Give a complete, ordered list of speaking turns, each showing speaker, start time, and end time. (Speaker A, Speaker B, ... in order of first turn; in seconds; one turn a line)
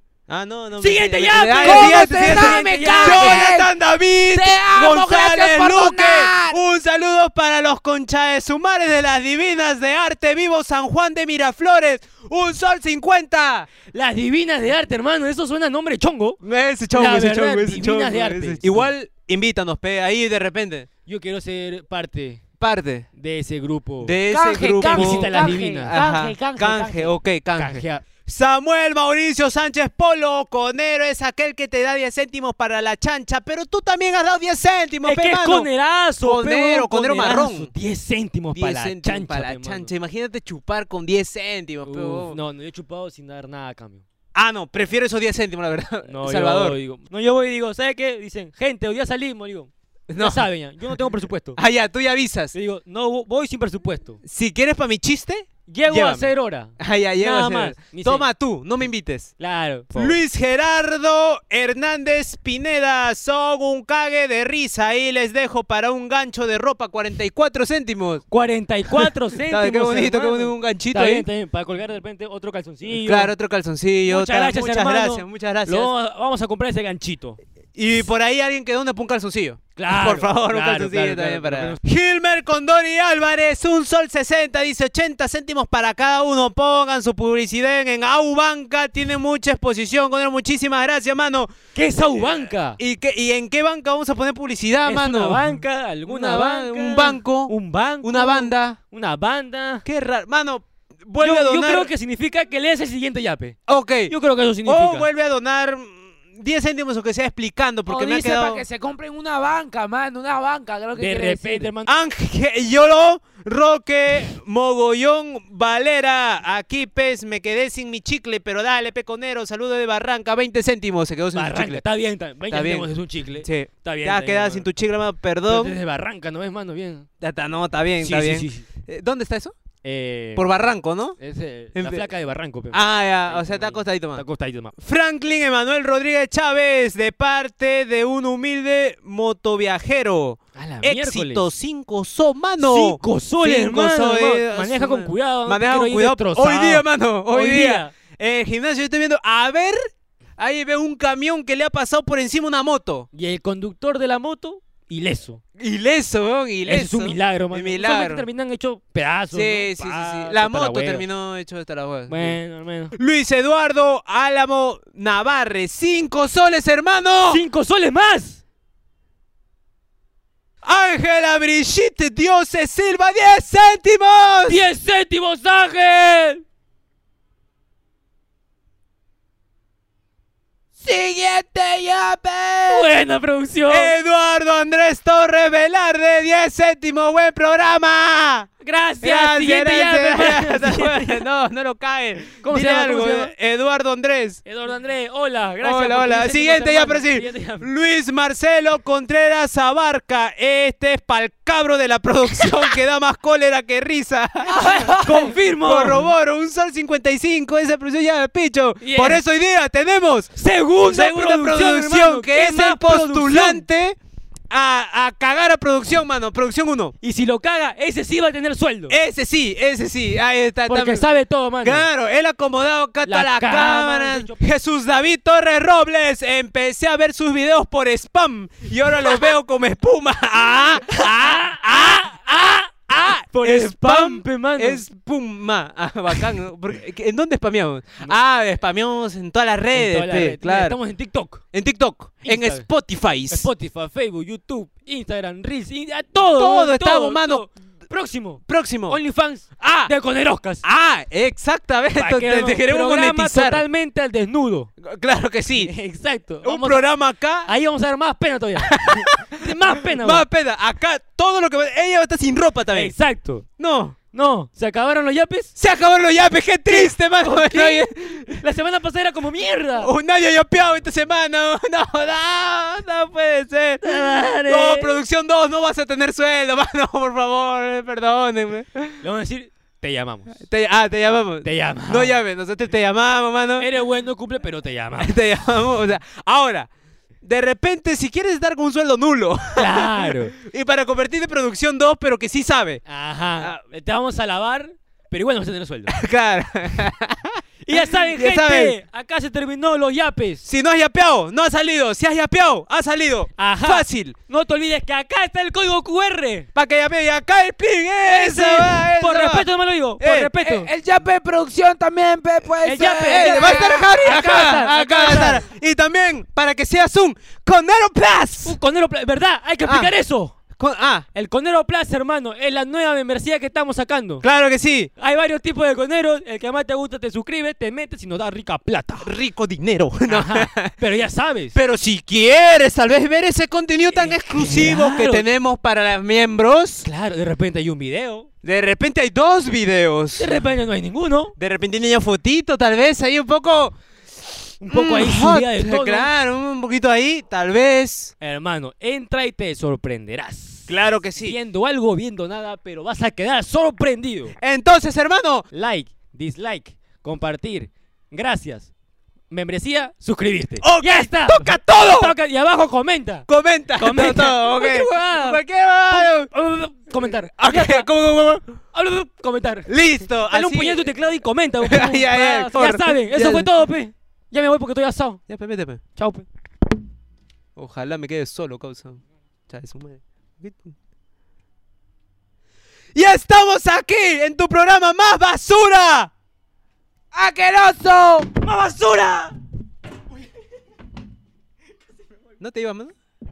Speaker A: 0.3-13.7
Speaker B: 0.8-3.5
Speaker C: 1.6-3.7
Speaker C: 4.3-6.6
Speaker B: 13.9-16.4
Speaker A: 16.4-20.9
Speaker B: 16.9-18.9
Speaker B: 21.1-22.4
Speaker A: 22.6-23.1
Speaker B: 23.2-24.1
Speaker A: 24.0-35.7
Speaker C: 24.3-27.1
Speaker B: 24.8-26.0
Speaker B: 27.6-28.0
Speaker B: 35.0-39.9
Speaker A: 36.2-37.7
Speaker A: 38.5-42.4
Speaker B: 41.8-44.0
Speaker A: 44.3-46.8
Speaker B: 46.1-51.6
Speaker A: 50.1-50.5
Speaker A: 51.5-52.5
Speaker B: 52.5-54.2
Speaker A: 54.2-59.3
Speaker B: 55.7-58.3
Speaker B: 59.4-60.2
Speaker A: 59.9-68.2
Speaker B: 68.3-73.3
Speaker A: 69.0-71.3
Speaker A: 73.0-75.9
Speaker B: 74.1-77.4
Speaker A: 77.8-91.5
Speaker B: 79.8-81.8
Speaker B: 91.7-92.8
Speaker A: 92.8-95.4
Speaker B: 94.8-99.8
Speaker A: 96.0-98.8
Speaker A: 99.8-101.9
Speaker B: 101.2-105.1
Speaker A: 103.7-104.1
Speaker A: 104.6-108.6
Speaker C: 107.9-111.7
Speaker B: 111.0-111.9
Speaker A: 111.9-121.8
Speaker B: 121.3-124.7
Speaker A: 122.5-125.8
Speaker B: 125.5-127.1
Speaker A: 127.2-129.6
Speaker B: 128.0-128.6
Speaker B: 129.8-130.4
Speaker A: 130.3-131.2
Speaker B: 131.2-134.7
Speaker A: 131.7-132.0
Speaker A: 132.7-134.2
Speaker A: 134.8-149.8
Speaker B: 140.5-141.4
Speaker B: 142.6-147.9
Speaker A: 150.4-153.1
Speaker B: 153.1-155.4
Speaker A: 155.6-158.2
Speaker B: 156.7-161.0
Speaker A: 159.3-162.3
Speaker B: 162.1-162.9
Speaker A: 162.9-167.4
Speaker B: 167.3-168.4
Speaker A: 170.6-174.7
Speaker B: 174.5-176.4
Speaker C: 180.8-182.8
Speaker B: 182.7-183.9
Speaker A: 183.7-188.5
Speaker B: 188.6-191.2
Speaker A: 189.0-194.4
Speaker B: 192.4-193.3
Speaker B: 194.4-197.7
Speaker A: 195.6-210.3
Speaker B: 204.4-206.1
Speaker B: 208.8-209.2
Speaker B: 210.4-213.6
Speaker A: 210.8-214.0
Speaker A: 214.5-216.9
Speaker B: 217.0-219.0
Speaker A: 218.9-221.0
Speaker B: 220.7-221.8
Speaker A: 221.6-240.8
Speaker B: 223.0-224.4
Speaker B: 230.9-232.1
Speaker B: 233.3-234.8
Speaker B: 239.7-241.4
Speaker A: 241.5-243.5
Speaker B: 242.2-242.7
Speaker B: 243.3-250.6
Speaker A: 246.3-247.4
Speaker A: 248.5-249.0
Speaker A: 249.6-249.9
Speaker A: 250.6-253.6
Speaker B: 251.9-254.7
Speaker A: 254.8-255.7
Speaker B: 255.6-256.8
Speaker A: 256.4-257.5
Speaker B: 257.4-260.2
Speaker A: 258.6-262.9
Speaker B: 262.7-263.4
Speaker A: 263.6-264.0
Speaker B: 264.1-265.5
Speaker A: 265.6-268.4
Speaker B: 266.7-269.9
Speaker A: 269.8-279.0
Speaker B: 273.8-274.9
Speaker B: 279.0-280.4
Speaker A: 280.4-283.7
Speaker B: 281.4-282.1
Speaker B: 283.6-285.2
Speaker A: 285.0-286.7
Speaker A: 287.2-292.8
Speaker B: 289.6-290.4
Speaker B: 292.9-295.9
Speaker A: 295.9-298.8
Speaker B: 297.6-300.4
Speaker A: 300.4-304.2
Speaker B: 303.4-306.5
Speaker A: 306.5-309.5
Speaker B: 308.0-310.7
Speaker A: 310.0-310.3
Speaker C: 310.4-315.4
Speaker B: 312.6-315.4
Speaker A: 312.8-318.6
Speaker B: 318.4-320.4
Speaker A: 319.6-319.9
Speaker A: 320.6-321.1
Speaker B: 321.1-324.2
Speaker A: 324.2-324.9
Speaker B: 325.0-329.1
Speaker A: 329.0-330.8
Speaker B: 330.1-331.6
Speaker A: 331.5-336.9
Speaker B: 333.9-335.2
Speaker B: 336.8-338.3
Speaker A: 338.4-340.4
Speaker B: 340.2-341.3
Speaker A: 341.4-348.1
Speaker B: 344.6-346.1
Speaker B: 348.2-354.3
Speaker A: 350.7-351.4
Speaker A: 354.4-355.4
Speaker B: 355.5-358.7
Speaker B: 359.3-363.3
Speaker A: 360.6-362.1
Speaker A: 363.3-366.3
Speaker B: 363.8-365.4
Speaker B: 365.9-367.9
Speaker A: 367.4-368.6
Speaker B: 368.7-369.7
Speaker A: 369.7-370.9
Speaker B: 370.2-375.2
Speaker A: 371.6-373.5
Speaker A: 375.3-375.8
Speaker B: 376.0-376.2
Speaker A: 377.6-380.7
Speaker A: 382.9-386.1
Speaker C: 387.1-388.3
Speaker B: 388.4-389.3
Speaker A: 392.4-392.9